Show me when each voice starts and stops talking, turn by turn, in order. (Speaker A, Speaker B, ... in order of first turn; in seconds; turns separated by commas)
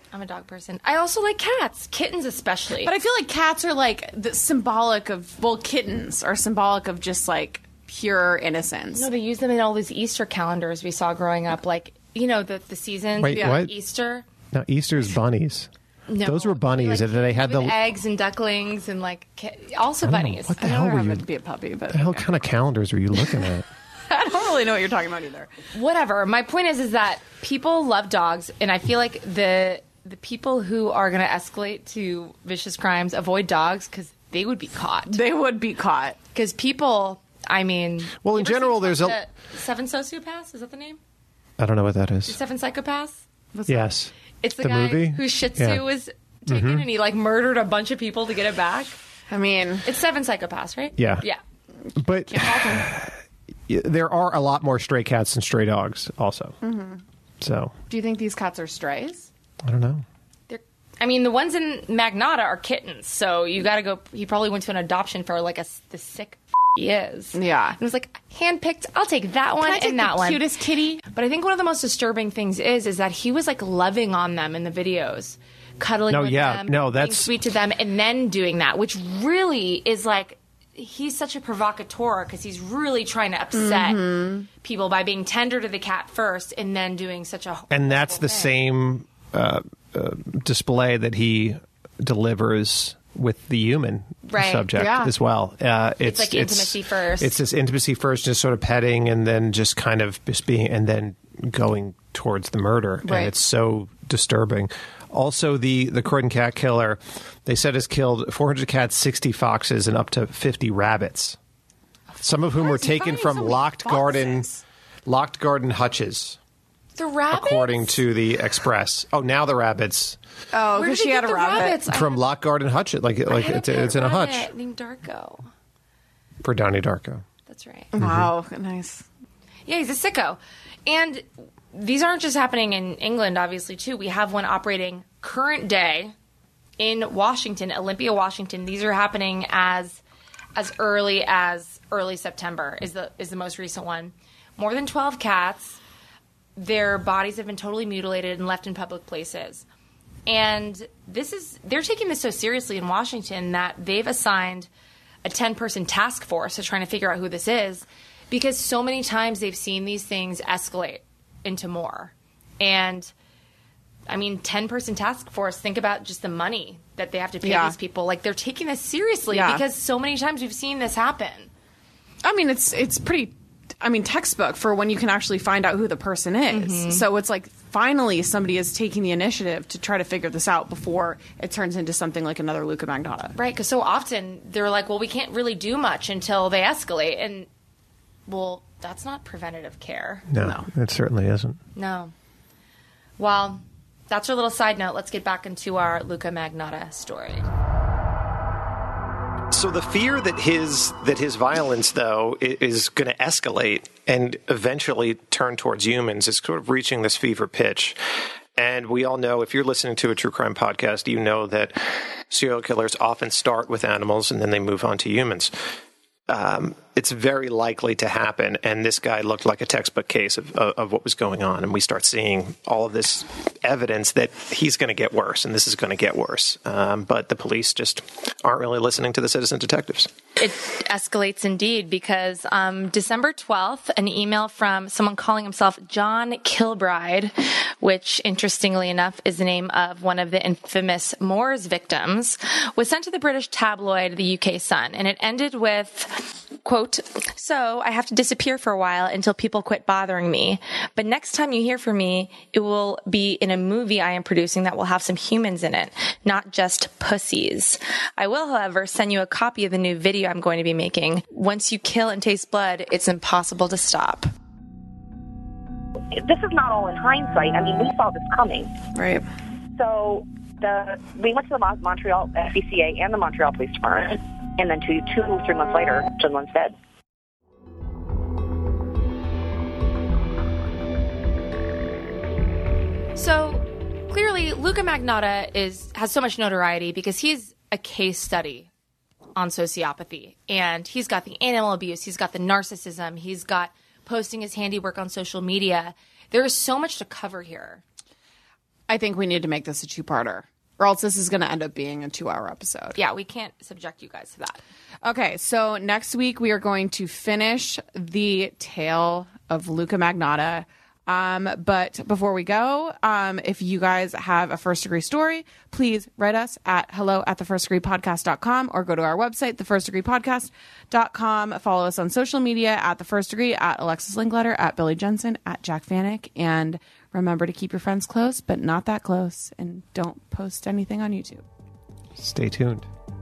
Speaker A: 0.1-2.9, Speaker B: 2.8-9.1, Speaker A: 8.9-14.2, Speaker C: 13.2-13.7, Speaker B: 13.3-13.6, Speaker C: 14.5-17.8, Speaker A: 16.1-20.6, Speaker C: 20.0-21.2, Speaker B: 20.6-22.3, Speaker C: 21.9-23.6, Speaker B: 24.1-25.5, Speaker A: 25.7-35.2, Speaker B: 35.1-36.2, Speaker A: 36.3-41.0, Speaker C: 38.2-39.2, Speaker C: 41.6-42.4, Speaker A: 42.3-43.2, Speaker B: 43.5-43.9, Speaker C: 43.7-45.8, Speaker A: 44.4-49.0, Speaker C: 46.5-46.8, Speaker B: 49.3-49.8, Speaker A: 49.8-51.4, Speaker C: 51.0-51.2, Speaker C: 52.0-56.6, Speaker B: 52.3-52.9, Speaker B: 56.6-57.0, Speaker C: 57.4-57.7, Speaker B: 57.9-59.3, Speaker C: 59.6-60.0, Speaker A: 60.5-70.4, Speaker B: 67.3-67.8, Speaker B: 69.6-71.0, Speaker A: 71.1-88.5, Speaker C: 76.1-77.3, Speaker B: 83.5-84.5, Speaker C: 87.7-111.4, Speaker A: 94.3-94.7, Speaker B: 94.8-95.1, Speaker A: 96.0-97.4, Speaker B: 103.0-103.3, Speaker C: 112.2-114.5, Speaker B: 112.5-114.6, Speaker C: 115.0-116.4, Speaker A: 117.0-118.0, Speaker C: 117.3-120.2, Speaker B: 120.5-121.8, Speaker A: 120.7-122.2, Speaker C: 121.8-124.5, Speaker A: 123.3-125.5, Speaker C: 126.4-127.2, Speaker A: 127.5-127.9, Speaker B: 127.9-129.0, Speaker C: 128.0-128.3, Speaker A: 129.7-136.1, Speaker A: 136.8-140.0, Speaker A: 140.6-145.8, Speaker A: 146.6-149.6, Speaker A: 150.3-154.7, Speaker A: 155.2-163.1, Speaker A: 164.1-171.5, Speaker B: 167.4-167.8, Speaker B: 169.3-169.6, Speaker B: 172.2-183.3, Speaker A: 176.5-177.0, Speaker A: 183.3-187.5, Speaker A: 188.3-190.2, Speaker C: 190.3-191.6, Speaker B: 190.4-190.7, Speaker A: 191.7-192.1, Speaker A: 193.2-197.5, Speaker C: 199.5-208.0, Speaker C: 208.6-215.5, Speaker C: 216.3-230.1, Speaker A: 230.4-264.3, Speaker D: 266.1-268.7, Speaker B: 268.9-269.2, Speaker D: 269.8-276.7, Speaker A: 283.1-288.7, Speaker A: 289.4-297.8, Speaker B: 298.9-303.0, Speaker A: 302.9-304.6, Speaker B: 305.0-331.4, Speaker C: 332.2-332.9